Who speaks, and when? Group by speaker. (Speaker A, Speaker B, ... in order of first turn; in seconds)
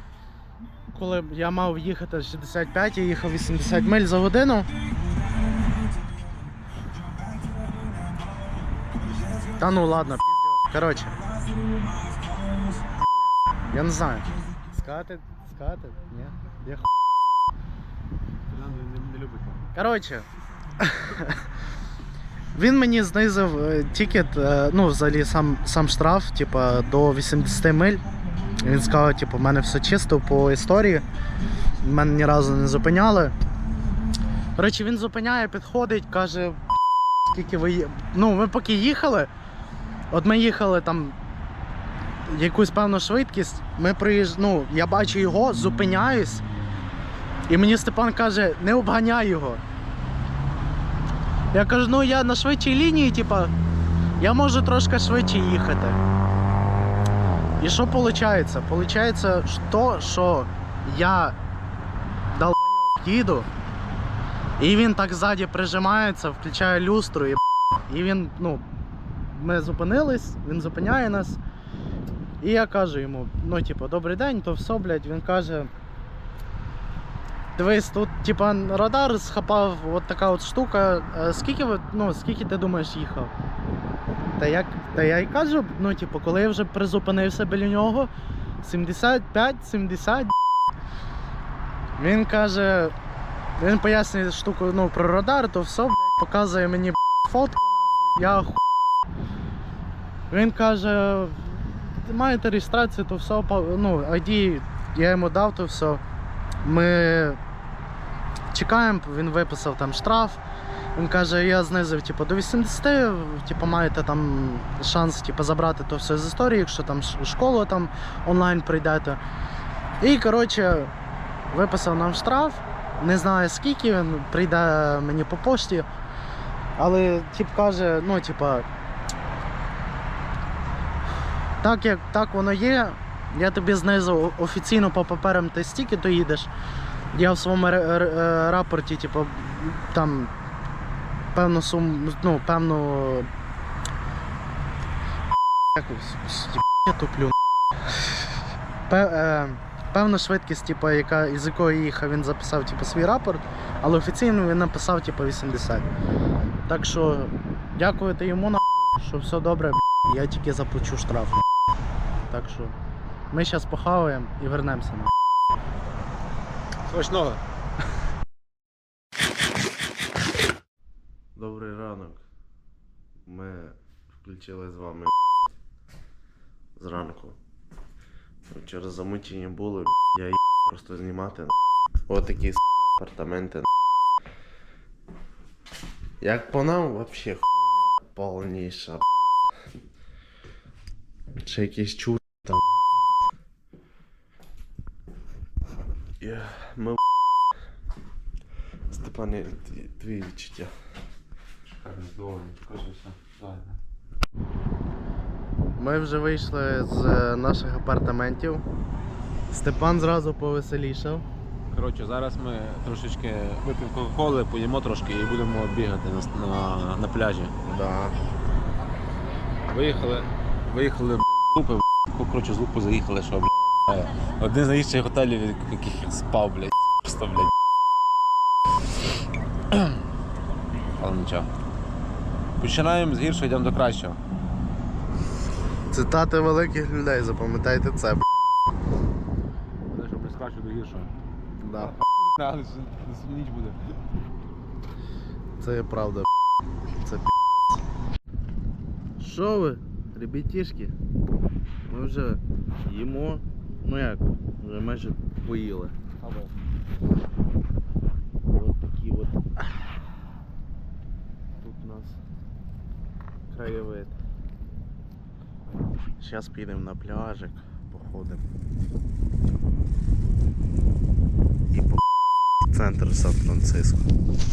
Speaker A: 0.9-4.7, 9.5-11.2, 12.7-13.0, 13.7-16.9, 19.7-20.3, 20.8-21.4, 22.5-28.1, 28.6-31.1, 31.8-33.3, 34.6-36.6, 37.3-39.3, 40.1-41.2, 42.2-46.5, 47.5-49.6, 51.5-53.5, 54.2-56.0, 57.6-61.4, 62.3-63.5, 64.6-68.7, 69.3-71.4, 72.4-75.7, 77.5-83.3, 84.4-88.1, 88.6-90.3, 92.0-92.9, 93.6-98.6, 100.3-106.0, 106.6-107.4, 108.5-110.4, 111.0-119.2, 120.0-120.9, 121.5-125.9, 126.8-128.7, 131.6-136.5, 137.1-140.3, 141.3-143.3, 145.7-147.4, 148.9-155.9, 156.7-161.5, 162.3-162.8, 163.3-165.1, 205.8-208.7, 209.5-211.2, 217.7-218.1, 235.9-238.3, 241.6-241.9, 245.6-246.3, 246.9-247.8, 249.2-250.9, 251.9-256.2, 258.5-259.6, 261.6-262.2, 263.5-264.1, 266.2-268.4, 271.7-272.0, 272.6-274.1
Speaker B: 18.5-19.6, 166.9-167.4, 201.7-203.8, 211.7-217.5, 219.7-227.5, 229.7-230.0, 231.0-231.5, 232.6-234.2, 239.9-241.1, 241.8-243.9, 256.2-256.5
Speaker C: 171.3-172.2, 173.3-175.2, 176.8-177.4, 178.5-183.8, 186.2-189.3, 191.4-192.9, 196.2-197.0, 198.9-200.7